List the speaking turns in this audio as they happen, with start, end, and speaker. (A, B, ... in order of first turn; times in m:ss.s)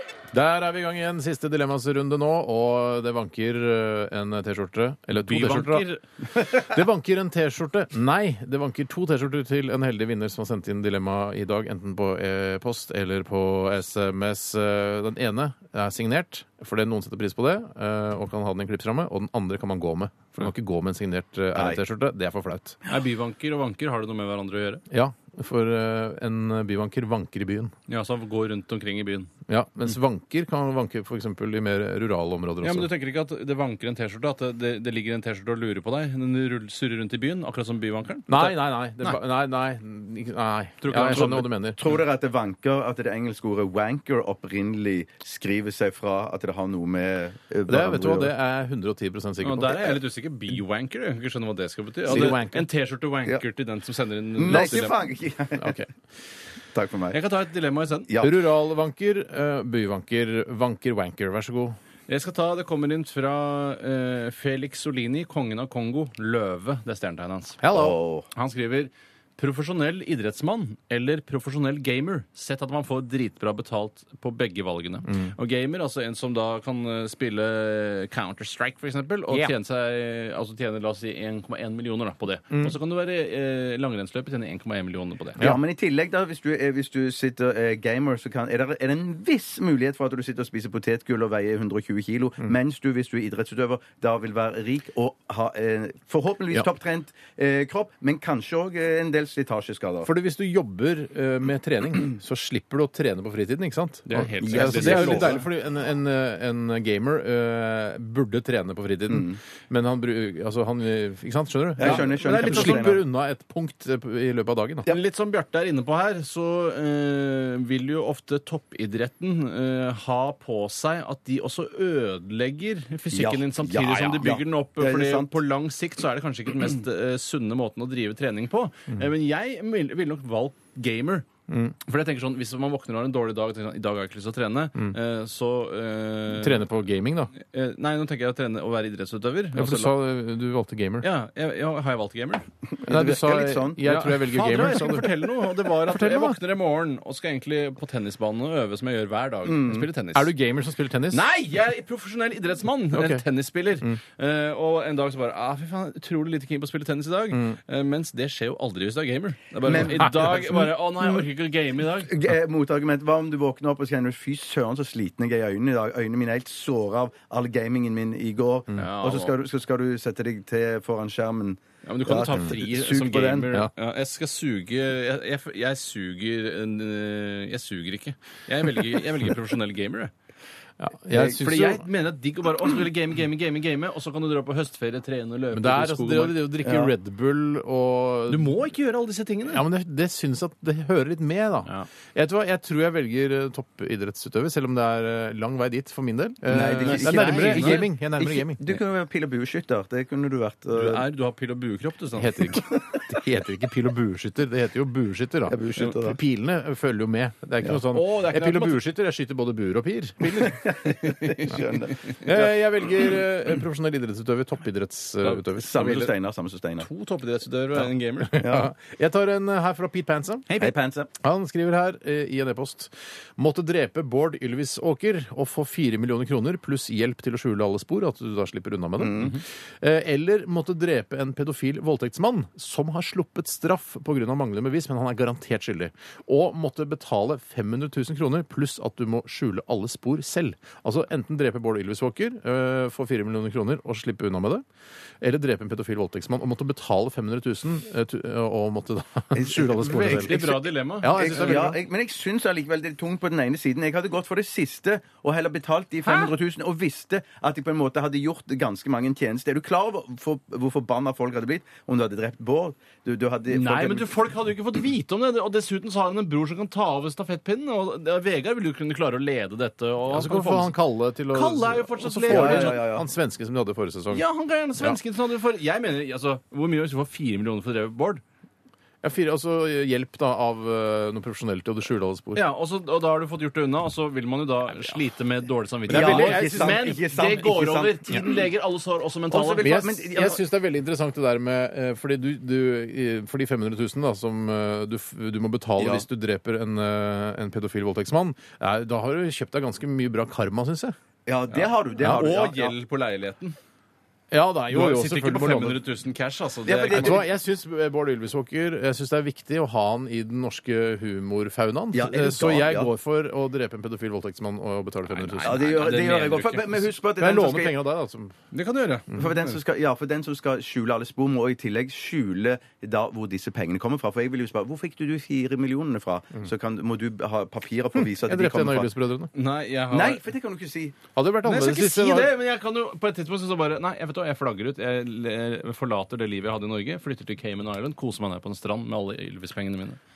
0:00.3-0:05.9 A
0:05.2-0:06.0 B
0:06.4-0:22.8 A
0:21.6-0:21.8 C
0:22.9-0:24.8 B
0:24.9-0:27.7 A
0:27.9-0:29.3 B
0:29.5-0:32.9 A
0:32.6-0:39.1 B
0:38.3-0:41.8 A
0:40.8-0:41.5 B
0:41.0-0:48.3 C
0:47.7-0:50.0 A
0:49.4-0:55.0 B
0:52.1-0:52.7 A
0:52.1-0:52.4 C
0:54.4-0:55.8 C
0:54.5-0:55.0 A
0:55.6-0:55.9 A
0:56.7-0:57.2 C
0:57.1-0:58.1 B
0:58.1-0:58.4 C
0:58.2-1:01.8 A
1:02.1-1:07.6 B
1:07.6-1:08.0 A
1:07.7-1:08.3 C
1:08.3-1:25.5 B
1:15.1-1:15.3 A
1:22.5-1:22.8 A
1:25.4-1:40.1 C
1:40.0-1:54.9 A
1:44.1-1:45.4 B
1:44.4-1:45.5 C
1:49.1-1:49.4 C
1:51.8-1:53.0 C
1:51.8-1:52.8 B
1:54.9-2:11.3 B
2:03.1-2:05.4 C
2:11.5-2:11.8 A
2:11.9-2:16.7 B
2:16.3-2:17.3 A
2:17.4-2:20.0 B
2:19.5-2:21.1 A
2:21.0-2:22.4 B
2:22.7-2:24.0 C
2:22.8-2:26.4 A
2:23.8-2:30.3 B
2:29.4-2:29.9 C
2:30.1-2:31.3 A
2:31.1-2:42.2 B
2:32.9-2:33.2 A
2:37.3-2:37.6 A
2:39.6-2:41.3 C
2:39.8-2:40.3 A
2:42.0-2:53.5 C
2:48.8-2:49.3 B
2:51.8-3:00.1 B
3:00.8-3:01.8 A
3:01.1-3:01.4 C
3:01.3-3:06.5 B
3:05.5-3:08.6 A
3:08.3-3:09.6 B
3:09.5-3:18.8 A
3:16.5-3:21.1 C
3:16.8-3:17.8 B
3:20.7-3:22.6 B
3:22.2-3:30.6 A
3:25.5-3:26.2 C
3:27.9-3:28.8 B
3:30.4-3:32.4 C
3:30.9-3:31.5 B
3:32.2-3:36.0 A
3:35.2-3:36.1 B
3:35.6-3:36.9 C
3:36.8-3:38.4 B
3:38.3-3:40.6 A
3:38.3-3:38.7 C
3:40.6-3:41.1 C
3:41.2-4:04.6 A
3:49.0-3:49.4 C
4:05.2-4:11.8 A
4:09.4-4:10.4 C
4:09.8-4:11.7 B
4:11.1-4:24.1 C
4:16.0-4:16.3 B
4:23.5-4:30.8 B
4:30.1-4:34.2 A
4:31.3-4:32.8 B
4:32.3-4:33.1 C
4:34.1-4:38.2 B
4:39.0-4:42.4 A
4:42.4-4:49.8 B
4:45.9-4:46.9 A
4:45.9-4:48.4 C
4:49.3-4:50.4 C
4:49.6-5:01.0 A
4:55.8-4:56.0 C
5:01.3-5:02.8 C
5:01.5-5:03.6 B
5:04.3-5:05.8 A
5:04.7-5:07.2 B
5:06.7-5:07.3 C
5:06.9-5:15.6 A
5:11.9-5:12.9 C
5:15.1-5:16.6 B
5:15.4-5:17.8 C
5:17.2-5:18.4 A
5:18.5-5:19.4 B
5:19.2-5:28.9 C
5:28.0-5:29.3 A
5:29.3-5:30.2 B
5:29.9-5:31.0 C
5:31.2-5:32.3 A
5:31.5-5:40.0 B